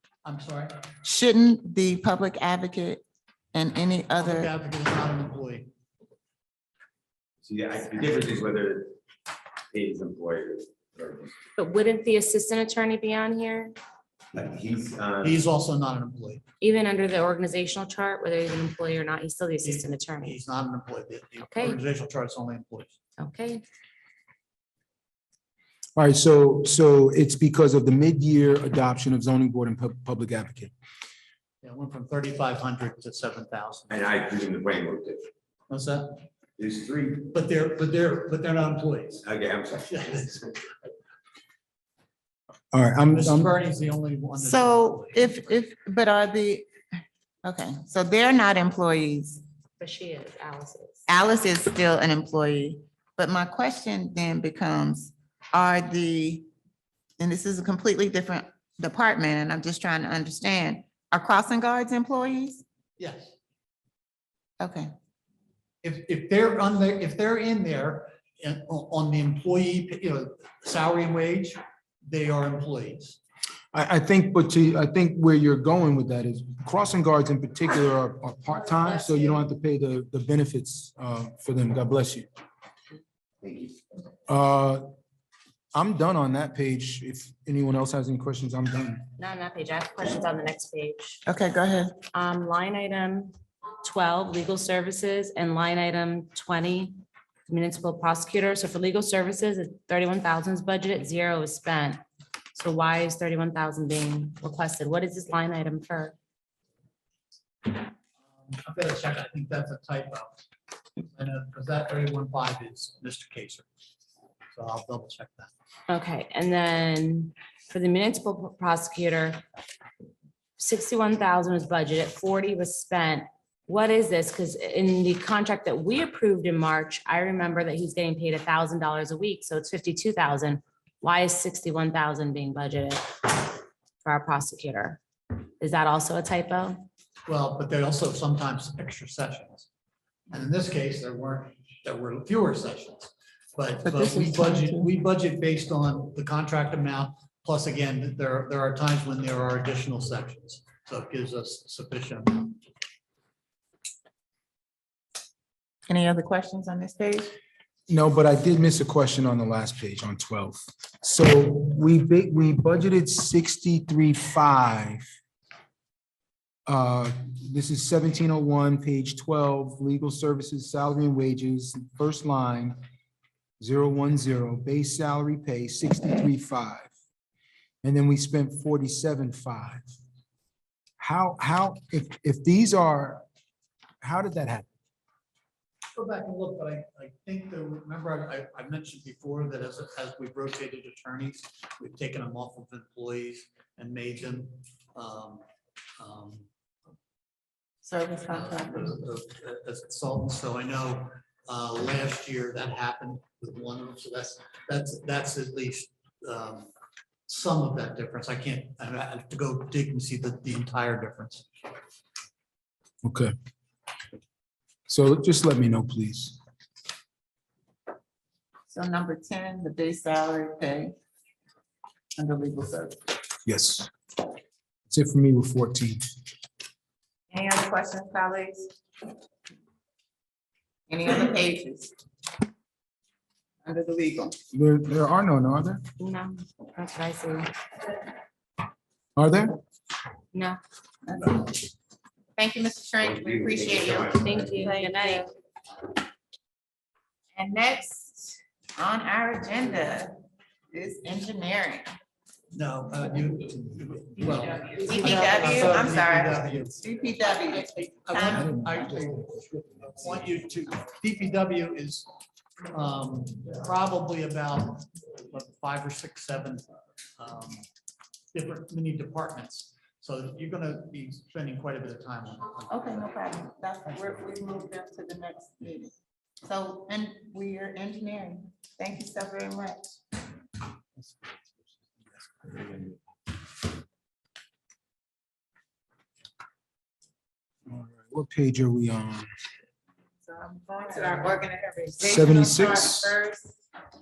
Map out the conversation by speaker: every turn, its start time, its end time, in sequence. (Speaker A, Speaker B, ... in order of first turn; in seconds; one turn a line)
Speaker A: 0.2-0.7
Speaker B: 1.0-3.0
Speaker B: 3.5-4.5
Speaker A: 4.2-5.7
Speaker C: 7.4-8.9
Speaker C: 9.7-11.4
Speaker D: 11.6-13.8
Speaker C: 14.3-15.4
Speaker A: 15.2-16.4
Speaker D: 16.6-20.4
Speaker A: 19.6-23.0
Speaker D: 21.4-21.8
Speaker D: 23.2-23.6
Speaker E: 26.0-30.7
Speaker A: 31.6-34.2
Speaker C: 33.9-35.3
Speaker A: 35.7-36.2
Speaker C: 36.6-37.2
Speaker A: 37.2-39.2
Speaker C: 39.2-40.3
Speaker A: 39.9-40.6
Speaker E: 42.7-43.5
Speaker A: 43.1-45.4
Speaker B: 44.4-46.7
Speaker B: 47.4-49.4
Speaker D: 49.8-51.0
Speaker B: 51.1-56.5
Speaker B: 57.2-62.6
Speaker A: 63.0-63.3
Speaker B: 64.6-64.9
Speaker A: 65.8-73.2
Speaker E: 73.7-82.3
Speaker E: 84.3-84.8
Speaker E: 85.7-89.0
Speaker D: 89.2-91.2
Speaker B: 91.3-92.0
Speaker D: 92.1-102.0
Speaker D: 102.5-106.2
Speaker A: 108.4-110.4
Speaker A: 111.0-113.7
Speaker A: 114.5-115.5
Speaker D: 115.9-119.4
Speaker D: 120.6-135.0
Speaker D: 135.6-136.9
Speaker A: 137.3-139.7
Speaker A: 140.3-152.6
Speaker B: 143.8-144.9
Speaker B: 155.9-157.3
Speaker E: 157.9-165.1
Speaker E: 166.7-172.8
Speaker E: 173.6-176.9
Speaker E: 177.8-179.9
Speaker E: 181.0-183.2
Speaker E: 184.0-184.7
Speaker A: 185.9-195.4
Speaker A: 196.0-196.4
Speaker B: 197.8-198.9
Speaker A: 198.3-206.7
Speaker A: 207.3-211.4
Speaker E: 213.0-213.3
Speaker E: 214.9-216.4
Speaker B: 218.7-220.9
Speaker B: 222.2-223.0
Speaker E: 223.5-223.9
Speaker E: 224.9-226.1
Speaker B: 227.3-228.7
Speaker B: 230.9-231.9
Speaker B: 233.6-234.4
Speaker E: 234.5-235.8
Speaker D: 236.0-237.5
Speaker E: 239.2-239.6
Speaker D: 240.3-240.6
Speaker B: 241.1-241.7
Speaker B: 242.4-245.3
Speaker C: 243.0-244.5
Speaker D: 244.1-245.3
Speaker B: 247.3-250.2
Speaker B: 250.7-251.9
Speaker A: 252.5-262.1
Speaker B: 254.8-258.5
Speaker E: 258.3-259.6
Speaker A: 262.7-266.7
Speaker A: 267.2-267.6
Speaker A: 268.3-273.0
Speaker B: 272.7-279.8
Speaker E: 282.5-282.9
Speaker E: 287.7-289.3
Speaker B: 290.2-293.6
Speaker E: 292.0-293.1